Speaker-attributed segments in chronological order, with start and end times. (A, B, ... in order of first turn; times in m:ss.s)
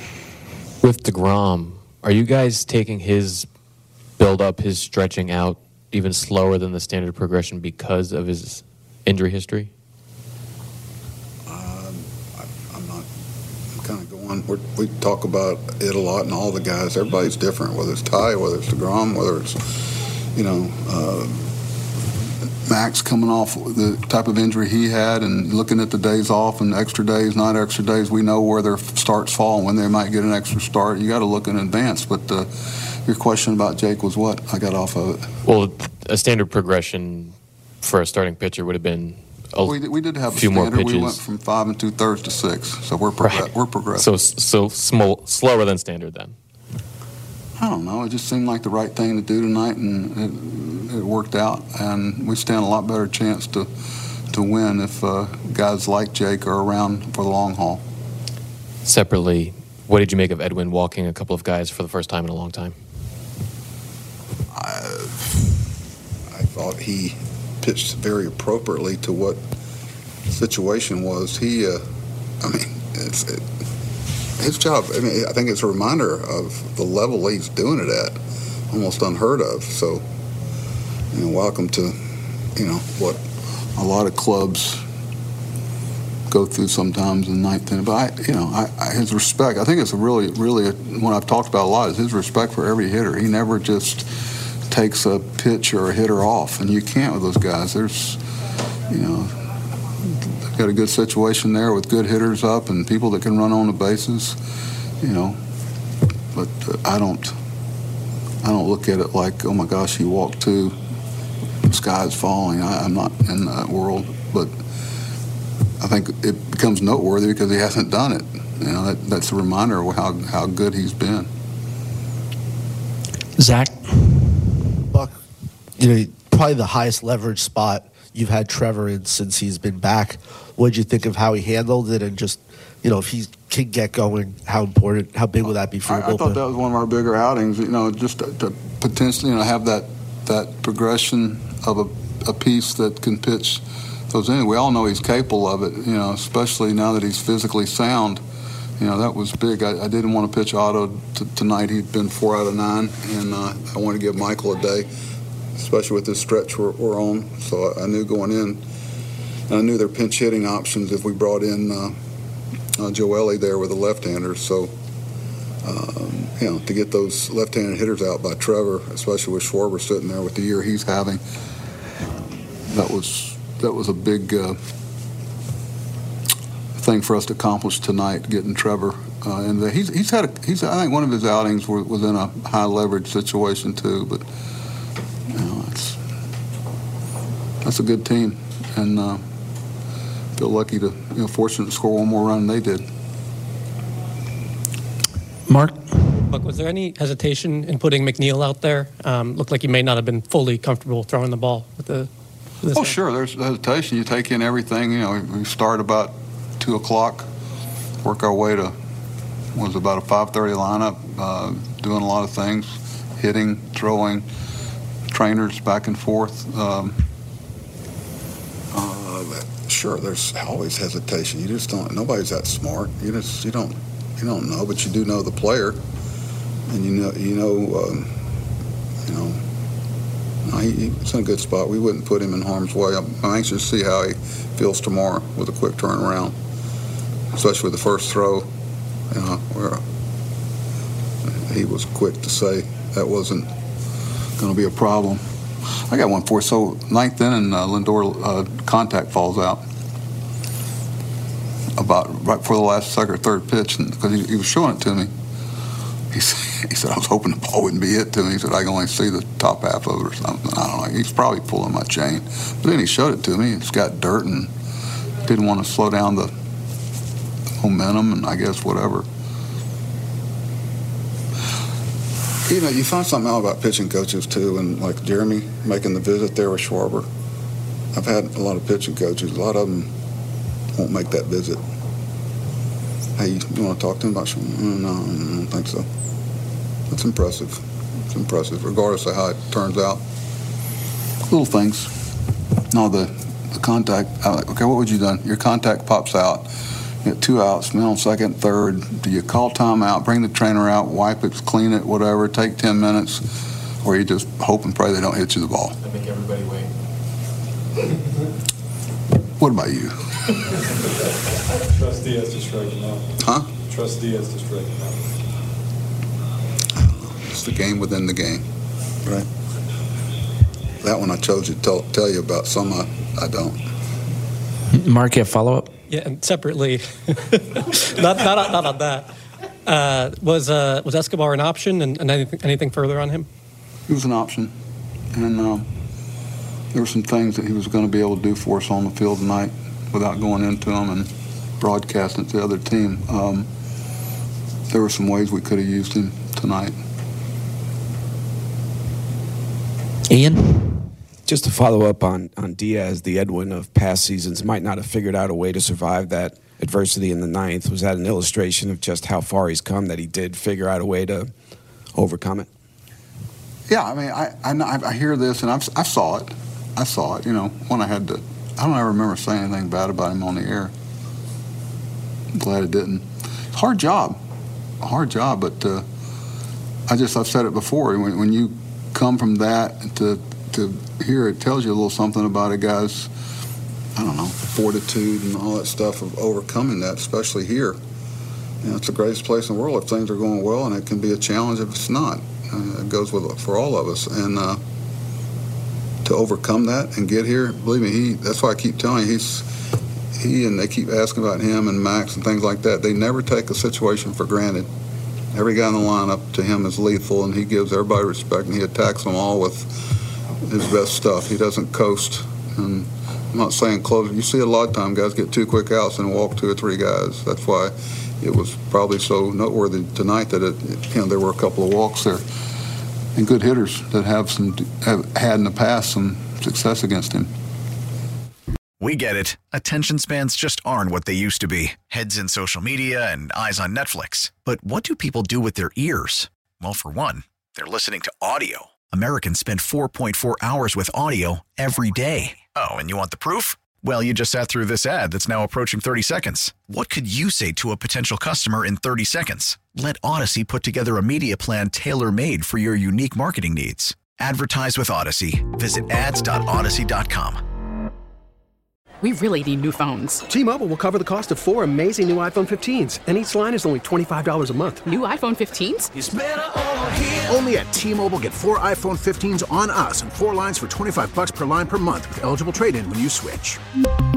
0:00.8-0:03.5 A
0:04.2-0:09.7 A
0:11.5-0:13.1 B
0:13.8-0:19.8 B
0:20.4-0:21.5 B
0:22.7-0:32.5 B
0:33.0-0:35.3 B
0:35.4-0:41.2 A
0:39.6-0:44.1 B
0:43.2-0:46.4 A
0:47.6-0:53.7 B
0:54.3-0:57.8 B
0:58.8-1:02.8 A
1:04.5-1:05.4 B
1:06.3-1:09.4 B
1:10.3-1:11.8 B
1:12.4-1:13.4 B
1:14.4-1:18.2 B
1:18.7-1:20.0 B
1:21.1-1:22.0 B
1:22.6-1:23.2 B
1:23.8-1:24.8 B
1:26.3-1:34.1 B
1:34.7-1:38.2 B
1:38.9-1:39.3 B
1:40.1-1:44.4 B
1:45.0-1:45.4 B
1:46.3-1:47.4 B
1:48.4-1:50.8 B
1:51.6-1:54.5 B
1:55.8-2:01.3 B
2:03.4-2:04.0 C
2:05.8-2:16.4 D
2:15.9-2:28.2 B
2:28.8-2:34.9 B
2:35.6-2:38.6 B
2:39.5-2:42.0 B
2:42.8-2:44.7 B
2:45.6-2:51.2 B
2:52.1-2:54.6 B
2:56.8-3:04.2 B
3:05.3-3:06.0 B
3:07.6-3:09.2 B
3:10.4-3:12.8 B
3:15.5-3:15.9 C
3:16.2-3:22.1 E
3:22.6-3:23.0 E
3:22.7-3:27.3 B
3:28.0-3:28.7 B
3:29.6-3:34.3 B
3:35.1-3:37.0 B
3:38.7-3:45.8 B
3:46.7-3:48.1 B
3:49.0-3:49.4 B
3:50.4-3:56.4 B
3:57.3-3:58.5 B
3:59.1-3:59.8 B
4:01.5-4:03.5 B
4:04.4-4:05.2 B
4:05.9-4:09.6 B
4:11.8-4:15.1 B
4:16.1-4:24.5 B
4:25.2-4:26.3 B
4:27.6-4:29.1 B
4:32.5-4:37.1 B
4:37.9-4:39.9 B
4:40.8-4:41.6 B
4:43.2-4:45.9 B
4:46.9-4:50.0 B
4:51.3-4:51.9 B
4:52.7-4:56.5 B
4:57.0-5:03.2 B
5:03.8-5:05.8 B
5:05.8-5:06.7 A
5:09.4-5:10.4 B
5:11.7-5:13.0 F
5:13.2-5:13.5 B
5:13.7-5:15.0 F
5:16.8-5:18.4 B
5:20.8-5:23.6 B
5:24.8-5:25.7 C
5:25.9-5:29.1 E
5:29.7-5:33.3 E
5:33.9-5:34.5 B
5:35.1-5:35.7 B
5:36.7-5:43.5 B
5:44.7-5:46.8 B
5:50.1-5:50.7 C
5:51.3-6:01.3 G
6:02.0-6:02.5 G
6:03.7-6:10.7 B
6:12.3-6:14.2 B
6:14.8-6:15.8 B
6:16.9-6:23.1 B
6:24.0-6:27.8 B
6:28.6-6:34.6 B
6:36.0-6:39.5 B
6:40.2-6:44.7 B
6:45.3-6:49.9 B
6:50.4-7:02.2 B
7:03.2-7:07.3 B
7:08.8-7:37.4 H
7:39.0-7:40.2 I
7:40.3-7:44.9 J
7:44.8-7:45.9 I
7:46.9-7:53.6 K